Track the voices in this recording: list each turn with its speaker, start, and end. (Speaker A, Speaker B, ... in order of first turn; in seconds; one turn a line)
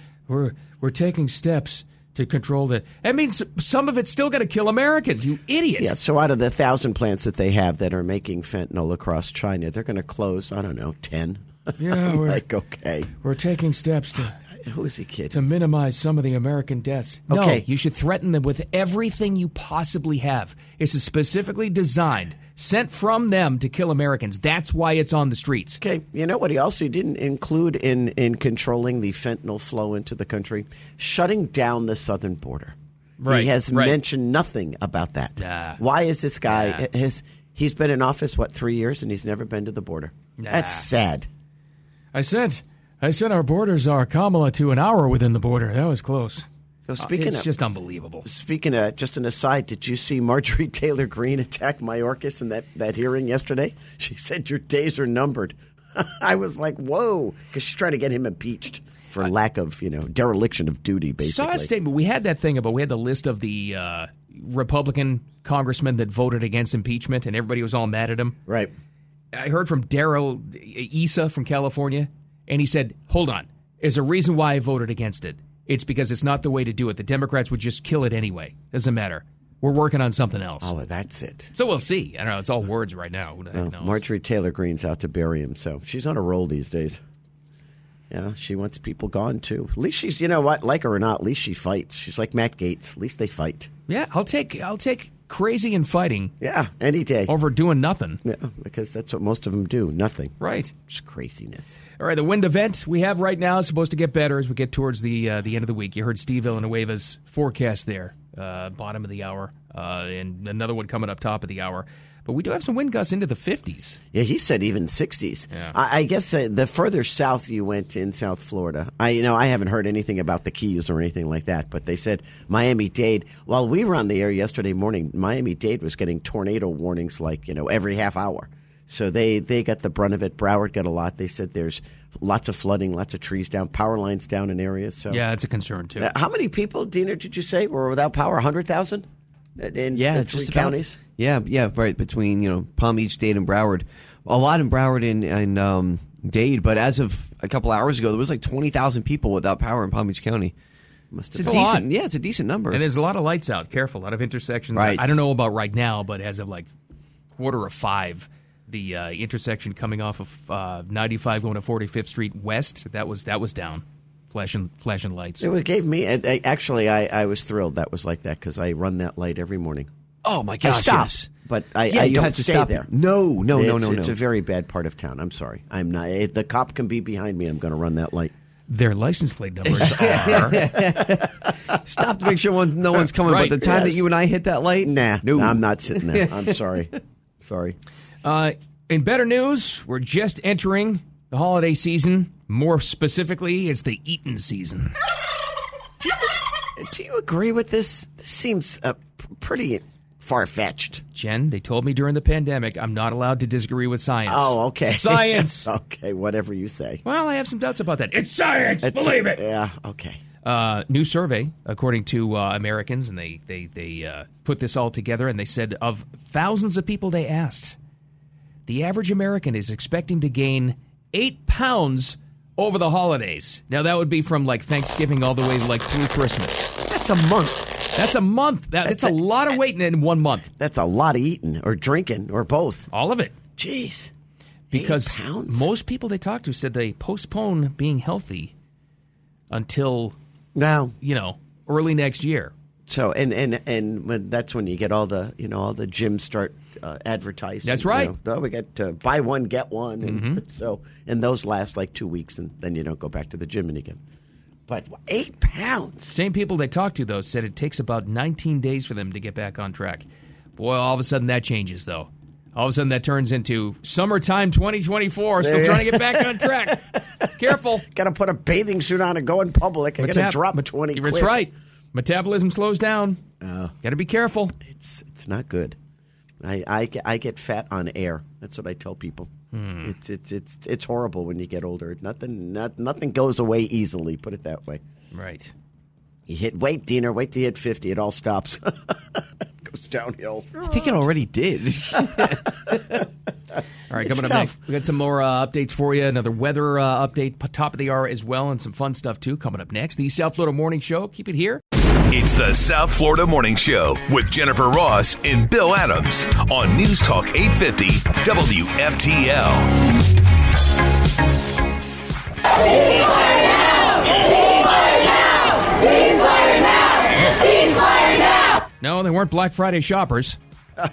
Speaker A: 0.3-6.0
Speaker B: 5.8-13.1
Speaker A: 11.8-12.4
Speaker A: 13.2-14.4
Speaker B: 14.6-15.4
Speaker A: 15.3-25.8
Speaker B: 17.3-17.7
Speaker B: 25.8-41.3
Speaker A: 33.2-34.0
Speaker A: 35.4-35.8
Speaker A: 36.5-36.9
Speaker A: 40.4-40.9
Speaker A: 42.1-46.5
Speaker B: 46.9-47.5
Speaker A: 47.0-48.3
Speaker B: 48.2-61.7
Speaker A: 61.2-68.4
Speaker B: 68.5-68.7
Speaker A: 69.3-80.7
Speaker B: 80.6-81.5
Speaker A: 81.6-84.0
Speaker B: 83.5-87.0
Speaker B: 88.1-93.7
Speaker A: 93.9-96.3
Speaker B: 96.4-97.3
Speaker A: 97.3-98.2
Speaker B: 98.2-101.8
Speaker A: 100.4-100.7
Speaker A: 102.0-114.0
Speaker B: 114.1-135.2
Speaker A: 135.1-136.1
Speaker B: 136.0-139.1
Speaker B: 139.6-141.0
Speaker C: 139.9-150.5
Speaker B: 151.1-151.7
Speaker C: 151.3-152.8
Speaker A: 151.4-151.9
Speaker A: 152.7-156.7
Speaker C: 154.8-155.2
Speaker A: 157.3-165.5
Speaker B: 165.4-169.9
Speaker C: 170.2-171.3
Speaker B: 170.6-172.9
Speaker C: 171.9-174.2
Speaker B: 173.5-178.3
Speaker A: 178.7-180.6
Speaker C: 179.7-186.4
Speaker B: 180.1-181.3
Speaker A: 183.2-183.7
Speaker B: 183.6-184.1
Speaker B: 184.8-187.8
Speaker A: 188.2-194.9
Speaker B: 196.0-201.0
Speaker A: 201.1-205.7
Speaker B: 204.3-207.0
Speaker A: 207.0-209.4
Speaker B: 208.8-210.2
Speaker A: 210.4-217.8
Speaker A: 218.7-226.7
Speaker B: 226.9-227.8
Speaker A: 227.9-230.5
Speaker B: 228.8-229.6
Speaker B: 230.6-232.9
Speaker A: 232.9-233.3
Speaker B: 233.6-234.1
Speaker B: 234.7-235.7
Speaker A: 234.7-238.5
Speaker A: 239.5-240.2
Speaker B: 240.6-240.9
Speaker A: 241.0-242.5
Speaker B: 242.9-254.0
Speaker A: 247.6-248.1
Speaker A: 250.0-250.4
Speaker B: 254.7-256.1
Speaker A: 256.1-267.9
Speaker B: 265.4-271.4
Speaker A: 270.0-273.2
Speaker B: 273.4-273.7
Speaker A: 273.8-274.6
Speaker B: 274.6-275.8
Speaker B: 276.4-279.3
Speaker A: 279.5-279.9
Speaker B: 279.8-284.8
Speaker A: 285.1-285.5
Speaker B: 286.3-291.1
Speaker C: 290.6-293.0
Speaker B: 292.0-292.9
Speaker A: 293.9-301.6
Speaker B: 293.9-294.5
Speaker D: 302.1-309.9
Speaker A: 317.1-317.7
Speaker A: 318.8-320.4